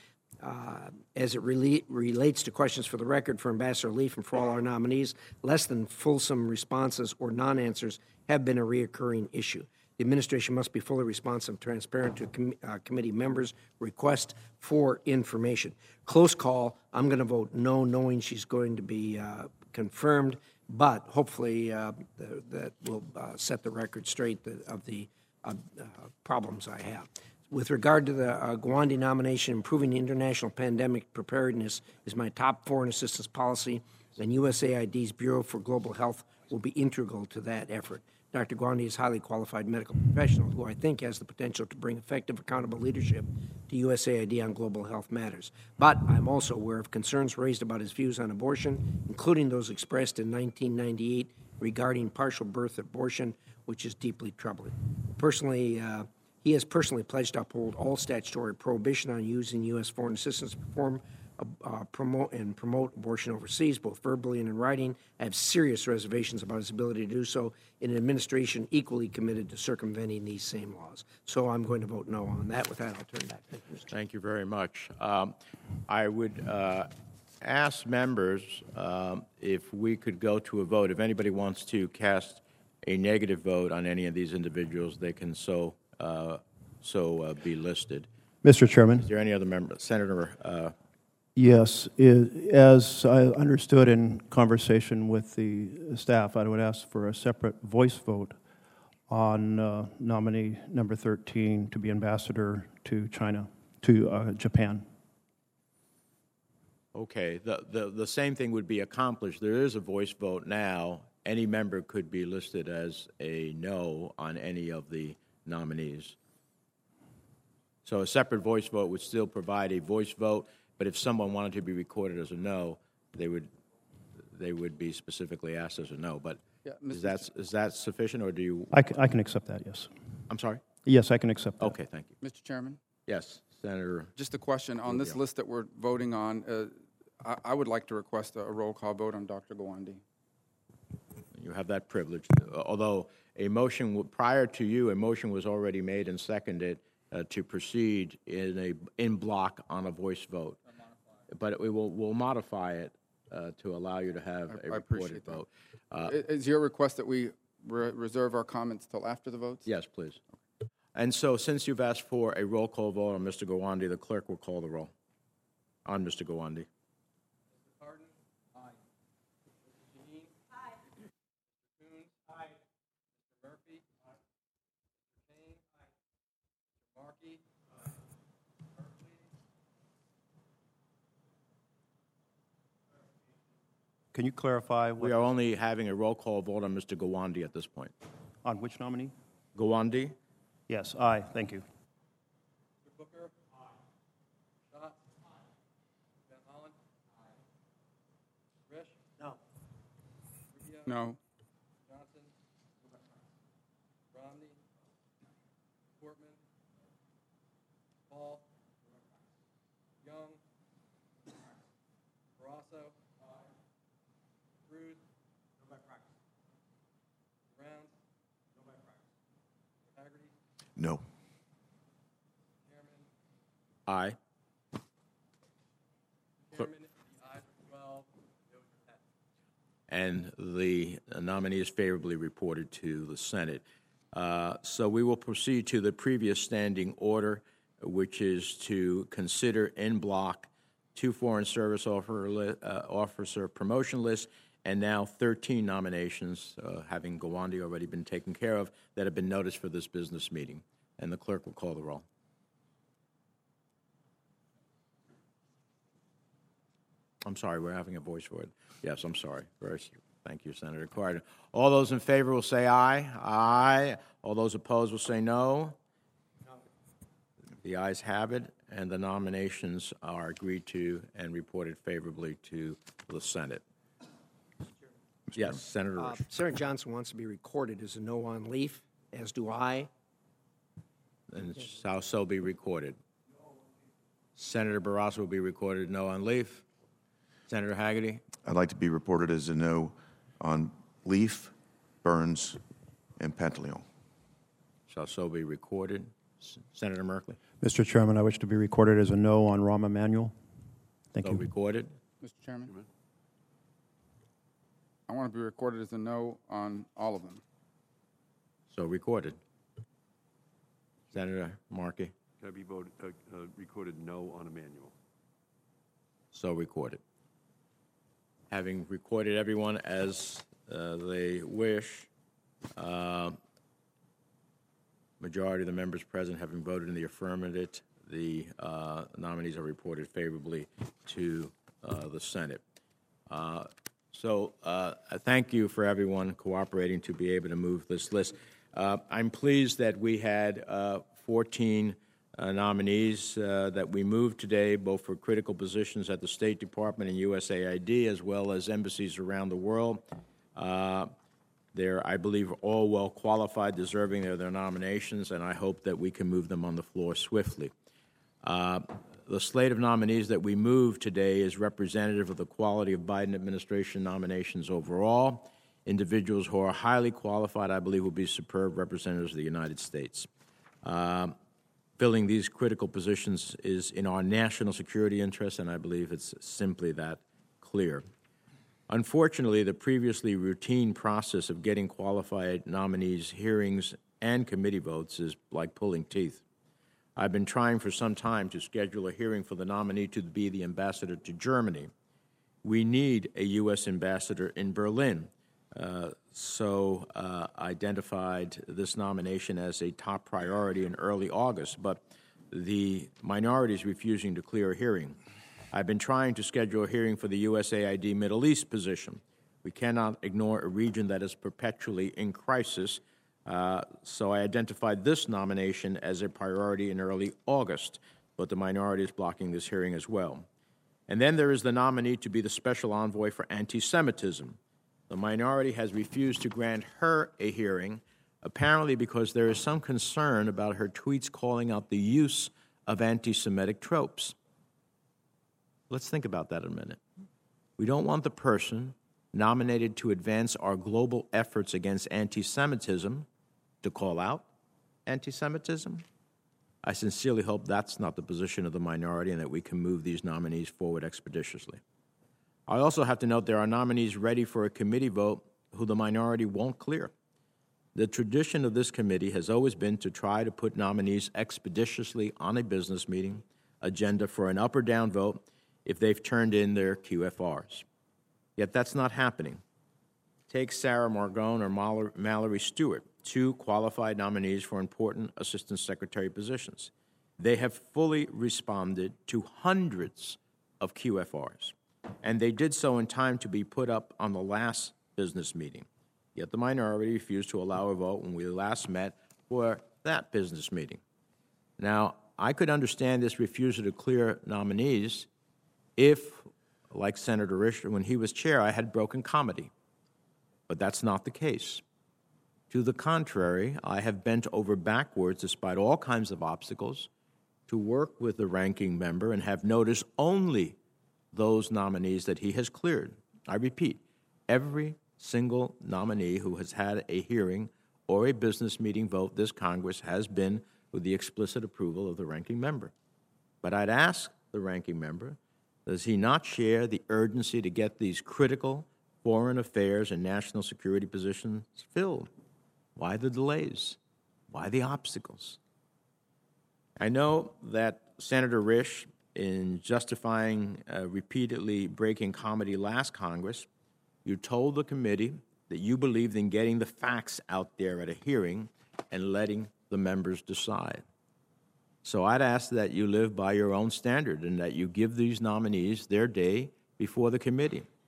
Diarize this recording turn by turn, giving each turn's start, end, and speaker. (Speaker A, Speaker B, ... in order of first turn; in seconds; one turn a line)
Speaker A: 0.4-73.9
Speaker B: 73.9-75.3
Speaker B: 75.9-76.9
Speaker B: 77.4-88.1
Speaker C: 88.4-89.1
Speaker B: 89.0-90.8
Speaker C: 91.4-98.4
Speaker C: 99.1-104.9
Speaker B: 106.9-116.2
Speaker B: 117.8-123.5
Speaker B: 124.3-128.8
Speaker D: 126.7-127.2
Speaker C: 128.7-129.9
Speaker B: 130.3-130.6
Speaker C: 130.8-131.7
Speaker B: 131.6-132.1
Speaker D: 132.2-132.8
Speaker B: 133.1-134.1
Speaker D: 134.2-140.0
Speaker B: 134.8-135.2
Speaker B: 141.3-150.6
Speaker B: 151.3-156.2
Speaker D: 154.5-155.4
Speaker D: 156.0-159.6
Speaker B: 159.7-160.2
Speaker B: 160.9-164.9
Speaker B: 165.9-166.7
Speaker E: 167.5-168.8
Speaker E: 169.6-170.7
Speaker E: 171.7-172.6
Speaker E: 173.2-174.1
Speaker E: 175.2-175.9
Speaker E: 176.8-177.4
Speaker E: 178.8-179.2
Speaker C: 184.1-185.2
Speaker B: 185.0-187.9
Speaker C: 188.4-189.1
Speaker B: 189.6-190.2
Speaker C: 190.7-191.6
Speaker E: 192.8-193.6
Speaker E: 194.7-195.5
Speaker E: 196.3-197.4
Speaker E: 198.7-199.4
Speaker E: 200.5-201.1
Speaker D: 200.9-201.2
Speaker E: 201.9-203.2
Speaker E: 204.1-204.6
Speaker E: 206.0-206.4
Speaker E: 208.1-209.1
Speaker E: 210.0-210.4
Speaker E: 212.4-213.6
Speaker E: 214.7-215.0
Speaker E: 215.6-216.0
Speaker E: 217.5-217.9
Speaker E: 218.6-219.0
Speaker E: 219.9-220.3
Speaker F: 220.8-221.0
Speaker E: 222.7-223.1
Speaker B: 223.9-224.2
Speaker E: 226.5-229.0
Speaker B: 229.9-252.1
Speaker B: 257.2-265.8
Speaker B: 267.6-273.6
Speaker B: 275.4-276.3
Speaker A: 276.0-279.9
Speaker B: 281.3-283.0
Speaker B: 284.4-286.6
Speaker B: 287.5-288.2
Speaker F: 288.4-292.6
Speaker F: 293.2-293.9
Speaker B: 294.9-297.4
Speaker C: 297.6-300.4
Speaker C: 301.1-301.4
Speaker B: 301.2-301.9
Speaker D: 302.2-302.7
Speaker D: 305.1-307.4
Speaker B: 308.7-309.4
Speaker B: 311.1-312.1
Speaker G: 312.4-314.9
Speaker B: 316.3-317.0
Speaker B: 318.5-322.1
Speaker B: 322.8-323.4
Speaker B: 325.2-332.6
Speaker B: 333.3-351.1
Speaker B: 351.7-357.7
Speaker B: 358.4-370.3
Speaker B: 370.8-371.4
Speaker B: 372.0-378.1
Speaker B: 378.9-386.4
Speaker B: 387.2-391.9
Speaker B: 392.6-405.2
Speaker B: 405.7-420.5
Speaker B: 421.1-424.6
Speaker B: 425.1-434.4
Speaker B: 435.9-437.0
Speaker B: 437.8-443.3
Speaker B: 443.8-444.5
Speaker B: 445.1-446.0
Speaker B: 446.8-451.8
Speaker B: 452.7-457.1
Speaker B: 457.9-467.9
Speaker B: 468.6-469.6
Speaker B: 470.5-491.0
Speaker B: 491.8-495.3
Speaker B: 496.0-499.7
Speaker B: 500.7-501.8
Speaker B: 502.7-507.1
Speaker B: 507.7-510.8
Speaker B: 511.3-522.9
Speaker B: 523.6-532.3
Speaker B: 533.0-534.0
Speaker B: 534.5-535.6
Speaker B: 537.0-543.7
Speaker B: 544.2-551.0
Speaker B: 552.0-557.9